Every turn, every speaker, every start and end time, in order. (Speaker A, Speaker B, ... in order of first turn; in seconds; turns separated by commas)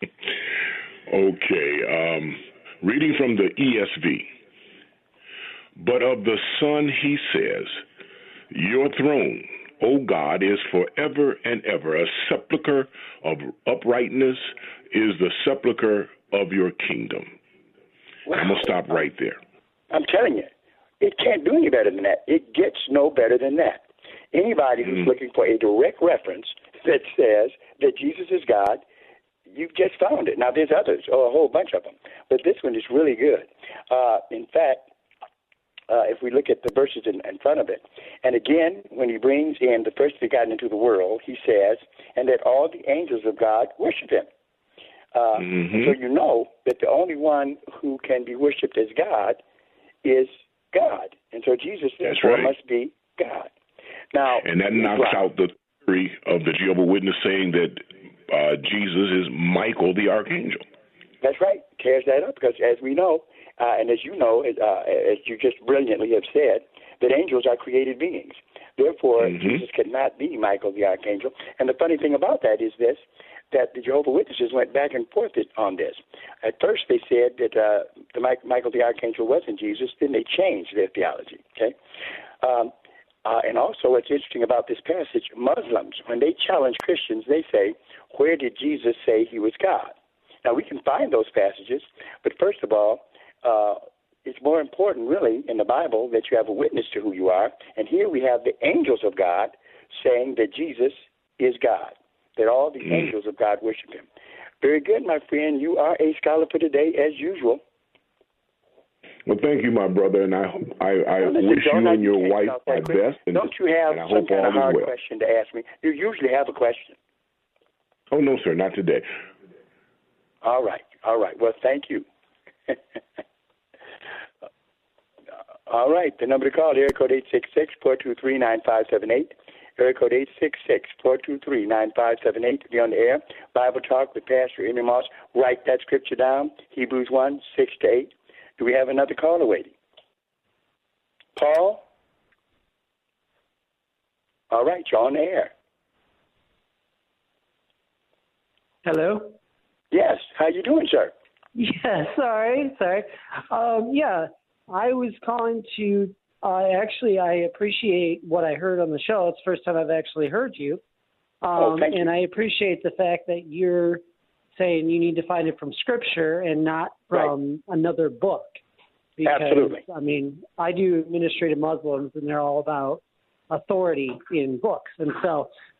Speaker A: 1.1-4.3, Speaker A: 5.8-7.8, Speaker A: 8.5-17.4, Speaker B: 18.3-18.7, Speaker A: 18.3-19.4, Speaker B: 19.9-28.8, Speaker B: 29.5-34.9, Speaker B: 35.9-44.3, Speaker B: 45.1-49.4, Speaker A: 45.4-46.0, Speaker B: 50.0-53.5, Speaker A: 52.0-52.5, Speaker B: 54.1-55.2, Speaker A: 54.4-60.6, Speaker B: 61.2-81.7, Speaker A: 69.2-69.6, Speaker B: 82.4-82.7, Speaker B: 83.2-104.1, Speaker A: 102.8-103.1, Speaker B: 104.6-107.6, Speaker A: 109.2-114.9, Speaker B: 111.2-117.0, Speaker A: 118.1-119.1, Speaker B: 120.4-122.0, Speaker B: 125.7-139.7, Speaker B: 141.3-141.8, Speaker B: 144.5-145.5, Speaker C: 148.8-149.3, Speaker B: 149.9-151.1, Speaker C: 151.5-160.8, Speaker C: 161.4-164.0, Speaker B: 161.5-162.1, Speaker C: 164.6-168.6, Speaker C: 169.2-175.5, Speaker B: 169.2-169.8